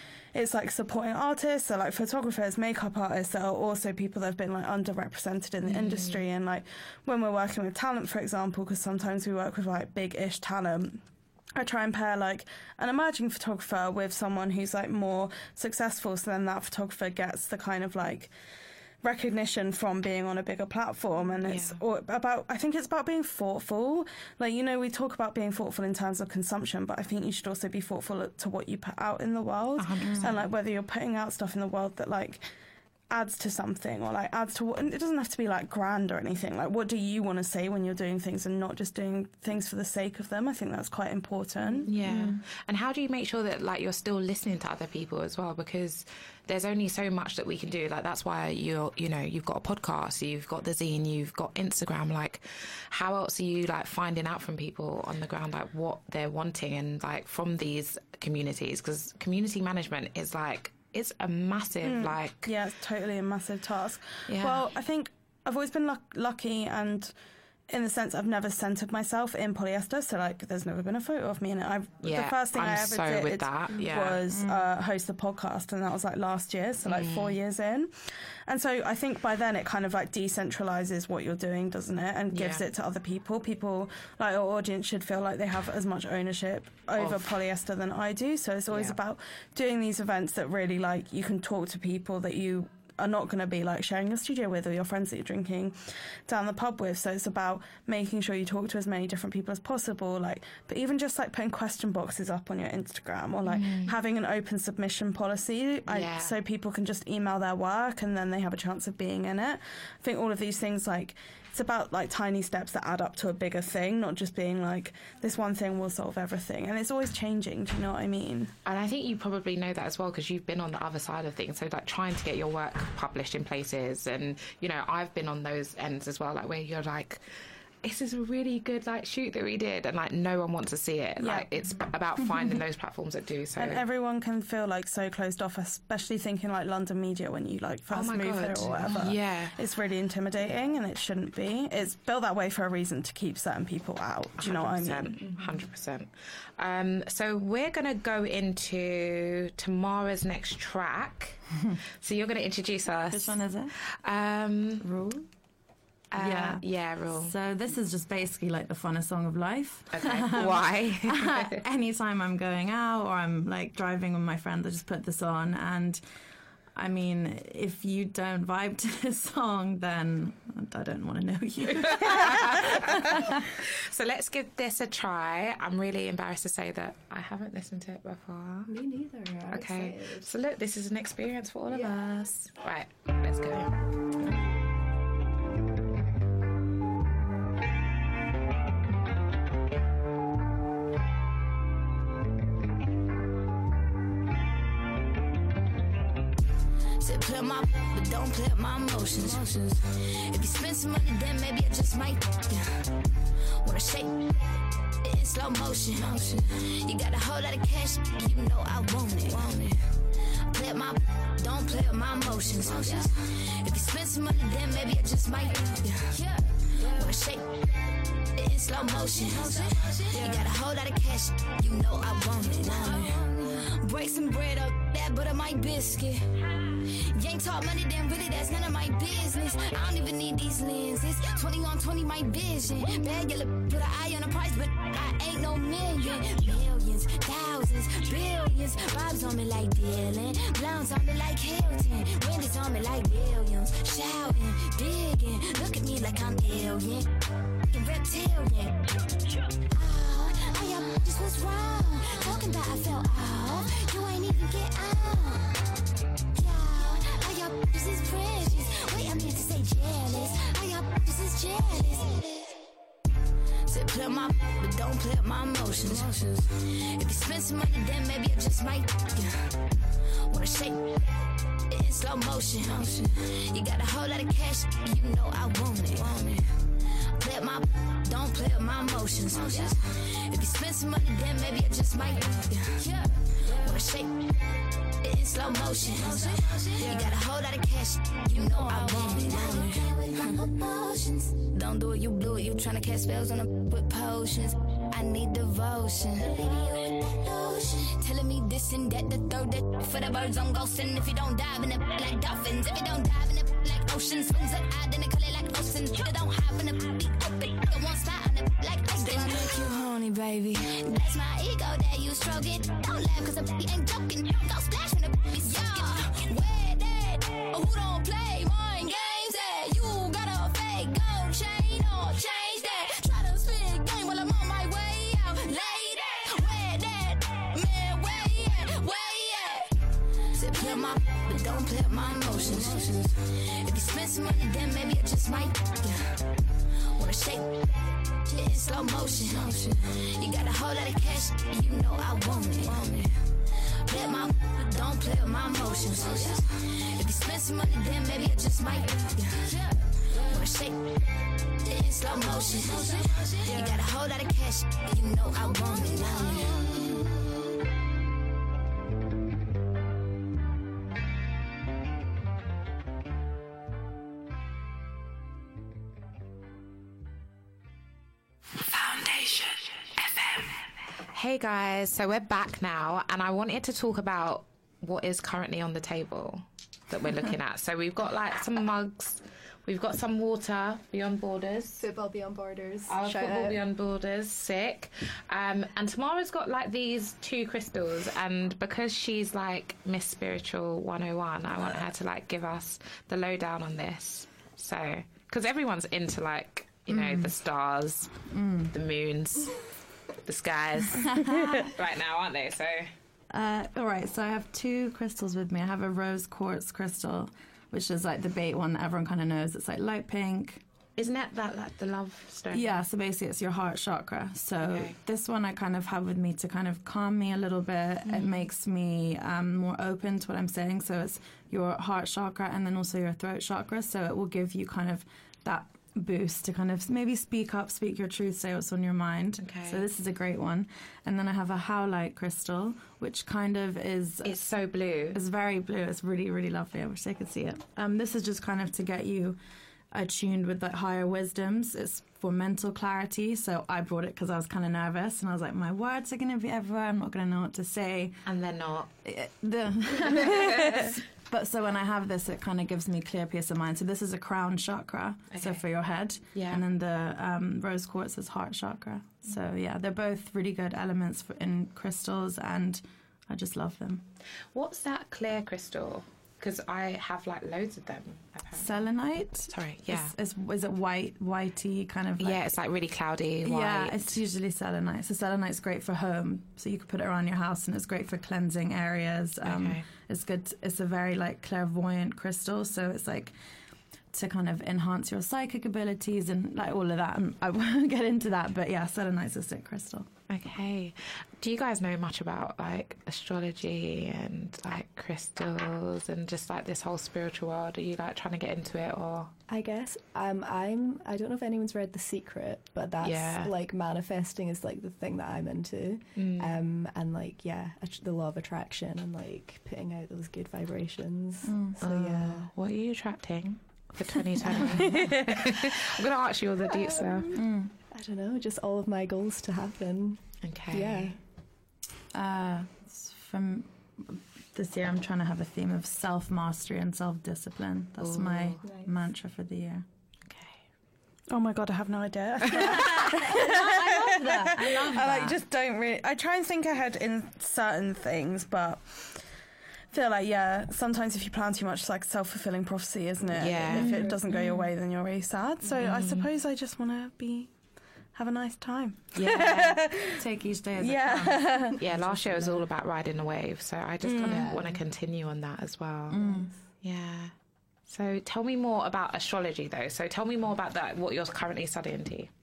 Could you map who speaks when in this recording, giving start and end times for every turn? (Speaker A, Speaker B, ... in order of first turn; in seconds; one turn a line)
Speaker A: 0.3-11.0
Speaker B: 5.7-6.2
Speaker A: 11.6-18.3
Speaker A: 19.0-32.5
Speaker B: 21.4-21.8
Speaker B: 29.8-30.4
Speaker C: 30.0-30.4
Speaker A: 33.1-41.9
Speaker B: 41.9-62.5
Speaker C: 42.0-42.4
Speaker A: 61.8-67.1
Speaker B: 64.3-64.6
Speaker A: 67.7-118.5
Speaker B: 72.0-74.2
Speaker C: 74.3-74.7
Speaker B: 76.9-77.4
Speaker B: 82.3-82.6
Speaker B: 87.0-87.2
Speaker B: 88.7-89.0
Speaker B: 103.5-104.0
Speaker B: 105.9-106.4
Speaker B: 118.7-127.2
Speaker B: 127.8-133.8
Speaker A: 131.2-131.8
Speaker A: 133.6-145.2
Speaker B: 137.9-139.6
Speaker B: 144.4-151.4
Speaker B: 152.0-154.9
Speaker C: 153.1-153.7
Speaker C: 154.8-155.3
Speaker B: 156.1-157.3
Speaker C: 156.2-166.0
Speaker B: 159.9-161.6
Speaker C: 166.8-173.4
Speaker B: 171.8-178.7
Speaker D: 178.7-180.3
Speaker B: 179.5-183.7
Speaker D: 181.7-182.0
Speaker E: 197.0-202.9
Speaker E: 203.6-204.4
Speaker E: 205.0-209.9
Speaker E: 210.5-217.6
Speaker E: 218.3-247.1
Speaker E: 247.7-248.9
Speaker E: 249.7-255.6
Speaker E: 256.4-262.6
Speaker E: 263.7-269.6
Speaker E: 270.3-271.0
Speaker E: 271.7-284.3
Speaker E: 285.0-329.7
Speaker E: 330.4-336.2
Speaker E: 336.9-351.0
Speaker E: 351.6-356.9
Speaker B: 371.1-381.9
Speaker D: 381.8-383.6
Speaker B: 382.9-398.2
Speaker C: 396.9-397.4
Speaker C: 398.3-398.7
Speaker B: 398.7-399.6
Speaker B: 400.2-402.9
Speaker C: 401.0-401.7
Speaker C: 403.3-410.6
Speaker B: 411.0-412.8
Speaker C: 412.5-434.4
Speaker B: 414.6-415.0
Speaker B: 418.1-418.5
Speaker B: 429.4-429.9
Speaker B: 434.2-435.2
Speaker C: 435.1-439.4
Speaker C: 439.9-448.2
Speaker B: 448.3-448.9
Speaker C: 449.1-464.1
Speaker B: 450.2-450.8
Speaker B: 455.3-455.6
Speaker B: 456.3-456.6
Speaker B: 464.5-468.9
Speaker C: 468.5-472.5
Speaker B: 469.5-470.1
Speaker B: 472.2-474.2
Speaker C: 473.4-483.3
Speaker B: 479.4-479.9
Speaker C: 484.1-490.1
Speaker B: 490.3-499.3
Speaker D: 499.5-512.5
Speaker B: 503.0-503.5
Speaker B: 506.2-506.6
Speaker C: 511.4-511.7
Speaker B: 511.8-517.3
Speaker A: 514.9-515.3
Speaker D: 516.9-517.4
Speaker C: 517.3-517.7
Speaker D: 517.9-521.2
Speaker B: 520.4-521.2
Speaker C: 522.1-529.9
Speaker B: 528.0-528.6
Speaker B: 530.3-530.6
Speaker A: 531.3-539.2
Speaker C: 532.5-535.4
Speaker B: 532.6-532.9
Speaker A: 539.9-547.5
Speaker B: 543.3-544.0
Speaker D: 543.7-544.2
Speaker C: 543.7-544.5
Speaker B: 545.8-546.3
Speaker A: 548.1-550.2
Speaker B: 549.1-549.8
Speaker C: 550.2-552.4
Speaker A: 550.8-551.8
Speaker B: 551.8-556.2
Speaker A: 554.0-554.5
Speaker D: 554.2-554.8
Speaker C: 556.1-556.5
Speaker D: 556.2-556.5
Speaker B: 556.8-557.3
Speaker B: 557.9-562.3